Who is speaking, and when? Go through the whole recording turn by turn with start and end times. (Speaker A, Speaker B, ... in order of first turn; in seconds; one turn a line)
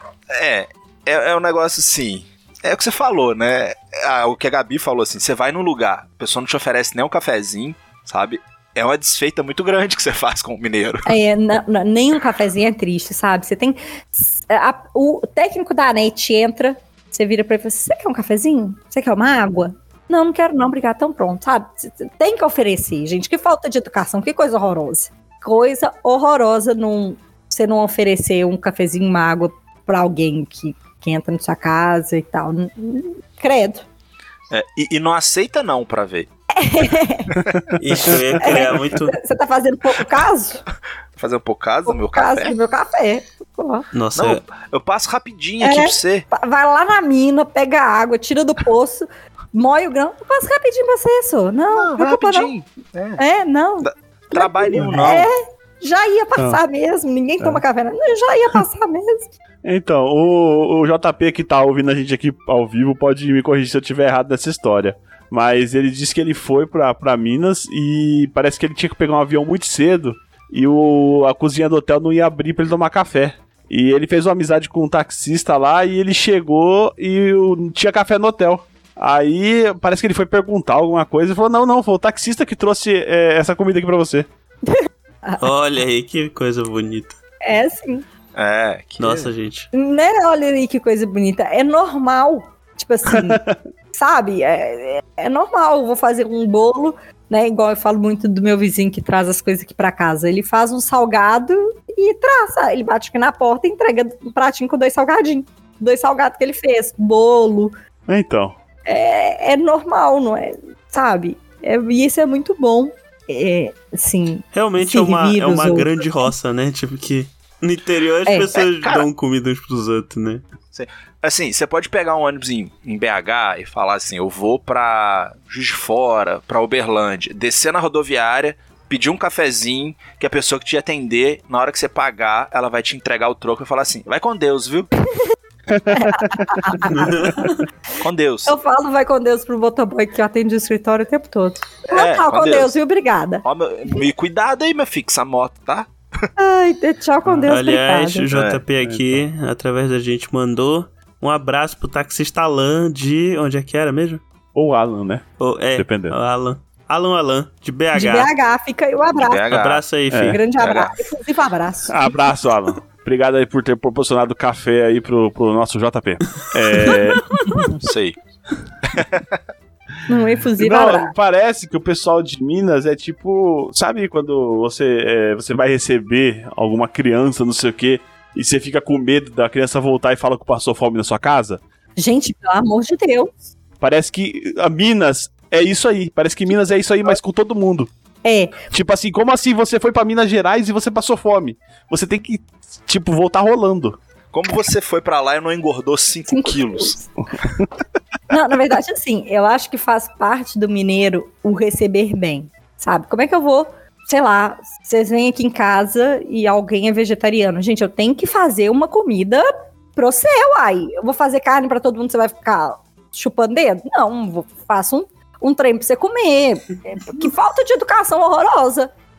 Speaker A: 0.3-11.1
Speaker B: 11.1-33.9
Speaker A: 34.5-36.3
Speaker B: 36.5-37.3
Speaker A: 37.4-37.6
Speaker C: 37.8-39.1
Speaker B: 38.4-40.6
Speaker A: 41.2-42.5
Speaker B: 41.9-43.9
Speaker C: 43.9-44.4
Speaker A: 44.1-46.3
Speaker B: 45.6-52.5
Speaker A: 51.7-53.2
Speaker B: 53.2-59.3
Speaker A: 53.8-55.3
Speaker D: 54.8-55.1
Speaker D: 59.6-84.3
Speaker B: 84.7-85.5
Speaker C: 85.4-87.2
Speaker B: 87.4-88.0
Speaker A: 88.3-89.3
Speaker C: 89.0-89.7
Speaker B: 89.7-107.8
Speaker D: 93.1-93.6
Speaker D: 108.1-108.6
Speaker B: 108.9-116.3
Speaker C: 114.5-120.4
Speaker B: 118.3-118.6
Speaker A: 118.7-119.1
Speaker A: 120.7-134.9
Speaker D: 135.7-137.3
Speaker B: 135.9-137.1
Speaker C: 136.9-137.6
Speaker A: 138.0-138.6
Speaker B: 138.5-144.1
Speaker A: 141.9-142.8
Speaker A: 143.4-145.9
Speaker B: 146.4-148.3
Speaker D: 147.2-147.6
Speaker C: 147.5-154.2
Speaker A: 148.3-148.6
Speaker D: 148.8-149.2
Speaker D: 154.6-156.2
Speaker C: 155.4-158.3
Speaker B: 157.9-159.5
Speaker A: 159.2-159.8
Speaker C: 159.5-160.4
Speaker D: 160.1-160.4
Speaker B: 160.2-162.1
Speaker A: 160.6-160.9
Speaker D: 161.9-167.8
Speaker C: 166.9-167.4
Speaker A: 167.8-168.2
Speaker A: 168.9-169.3
Speaker B: 170.1-171.2
Speaker D: 170.4-181.6
Speaker B: 182.0-183.3
Speaker D: 183.8-187.9
Speaker B: 188.2-188.7
Speaker D: 188.7-194.0
Speaker A: 194.3-197.0
Speaker B: 196.3-197.2
Speaker B: 198.3-218.9